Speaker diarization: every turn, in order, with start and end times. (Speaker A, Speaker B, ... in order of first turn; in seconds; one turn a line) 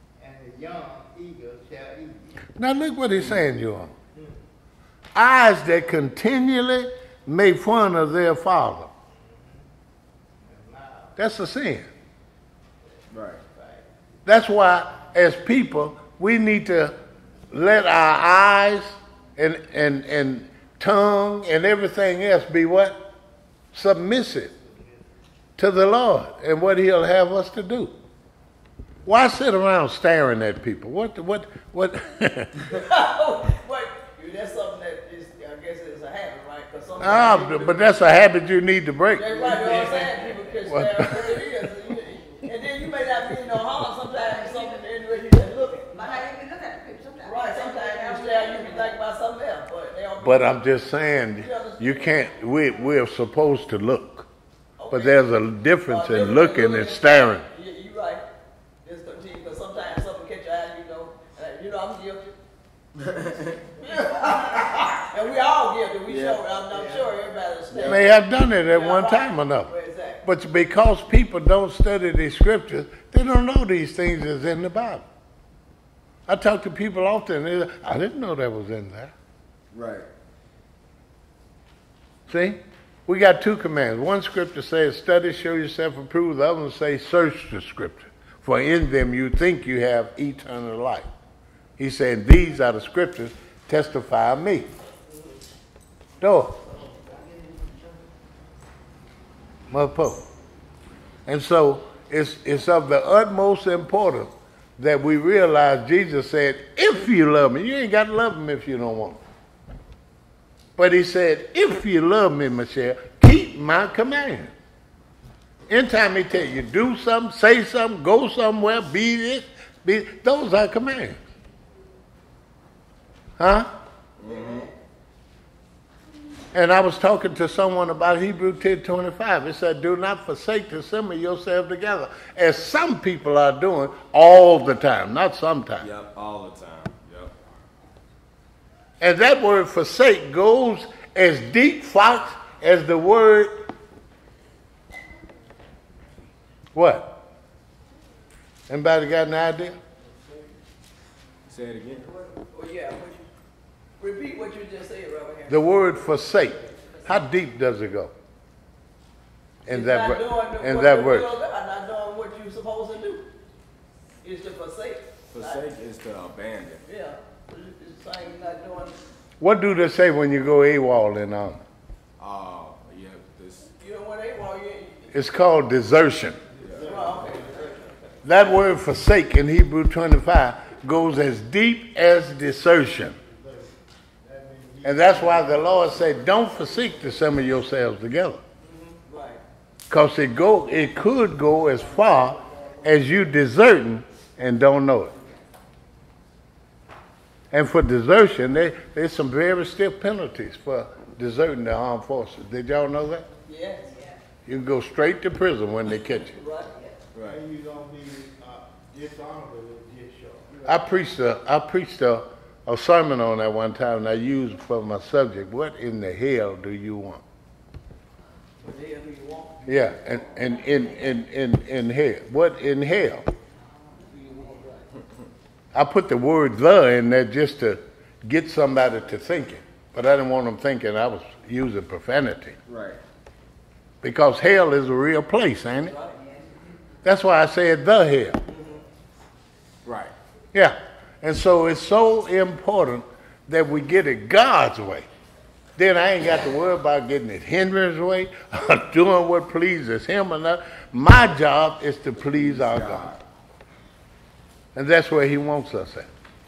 Speaker A: 0.2-2.4
Speaker B: 2.6-3.9
Speaker A: 4.2-4.4
Speaker B: 5.2-8.9
Speaker A: 9.2-9.7
Speaker A: 10.4-11.2
Speaker B: 11.2-11.9
Speaker C: 13.1-13.4
Speaker B: 14.3-16.9
Speaker B: 17.5-23.1
Speaker B: 23.7-24.5
Speaker A: 24.5-24.9
Speaker B: 25.6-27.9
Speaker B: 29.1-32.6
Speaker D: 32.7-38.1
Speaker B: 37.0-39.3
Speaker D: 39.1-46.2
Speaker A: 39.3-40.4
Speaker B: 40.7-41.3
Speaker E: 44.0-44.8
Speaker E: 45.9-49.0
Speaker D: 47.2-50.6
Speaker B: 50.2-54.3
Speaker D: 51.4-52.4
Speaker D: 54.8-55.2
Speaker B: 54.9-57.5
Speaker D: 55.9-58.3
Speaker D: 58.8-62.4
Speaker C: 63.0-63.6
Speaker D: 63.8-70.2
Speaker C: 66.1-66.4
Speaker A: 66.7-67.1
Speaker C: 67.7-68.0
Speaker B: 67.8-69.7
Speaker B: 70.2-75.1
Speaker B: 76.3-79.1
Speaker C: 79.7-80.1
Speaker B: 82.3-91.1
Speaker B: 91.8-94.7
Speaker D: 95.1-95.3
Speaker B: 96.2-96.6
Speaker B: 99.7-100.3
Speaker B: 101.3-109.2
Speaker B: 110.8-114.5
Speaker B: 115.7-121.2
Speaker B: 123.4-123.7
Speaker C: 124.2-124.7
Speaker D: 124.2-124.8
Speaker B: 126.5-135.9
Speaker C: 135.8-137.4
Speaker B: 139.0-143.7
Speaker B: 146.7-147.2
Speaker B: 148.7-149.8
Speaker A: 150.0-150.5
Speaker C: 151.5-152.1
Speaker D: 152.1-153.3
Speaker D: 154.0-155.8
Speaker B: 155.5-158.1
Speaker B: 159.7-161.4
Speaker D: 159.7-163.3
Speaker D: 164.2-165.7
Speaker C: 165.3-166.8
Speaker D: 166.8-169.0
Speaker B: 169.4-171.6
Speaker C: 172.2-173.7
Speaker D: 173.8-175.1
Speaker B: 175.1-176.4
Speaker A: 176.5-177.8
Speaker C: 176.6-176.9
Speaker D: 176.8-178.2
Speaker B: 178.2-183.2
Speaker A: 182.8-187.0
Speaker B: 184.8-188.4
Speaker D: 188.6-189.4
Speaker B: 189.9-195.1
Speaker D: 191.8-192.8
Speaker D: 195.1-195.4
Speaker B: 197.5-203.2
Speaker D: 203.4-204.0
Speaker E: 203.8-204.2
Speaker B: 204.5-206.3
Speaker D: 206.2-206.8
Speaker C: 207.1-207.4
Speaker A: 207.2-210.5
Speaker D: 210.5-210.9
Speaker B: 210.7-217.2
Speaker D: 218.6-220.5
Speaker B: 219.7-223.3
Speaker E: 220.5-221.2
Speaker D: 224.1-225.0
Speaker B: 225.7-232.6
Speaker C: 232.7-233.0
Speaker B: 234.0-235.9
Speaker D: 235.7-236.2
Speaker E: 236.2-236.5
Speaker B: 237.0-238.4
Speaker D: 238.5-238.8
Speaker C: 239.8-240.1
Speaker B: 240.5-245.1
Speaker B: 245.8-253.1
Speaker C: 252.2-253.2
Speaker B: 254.8-256.1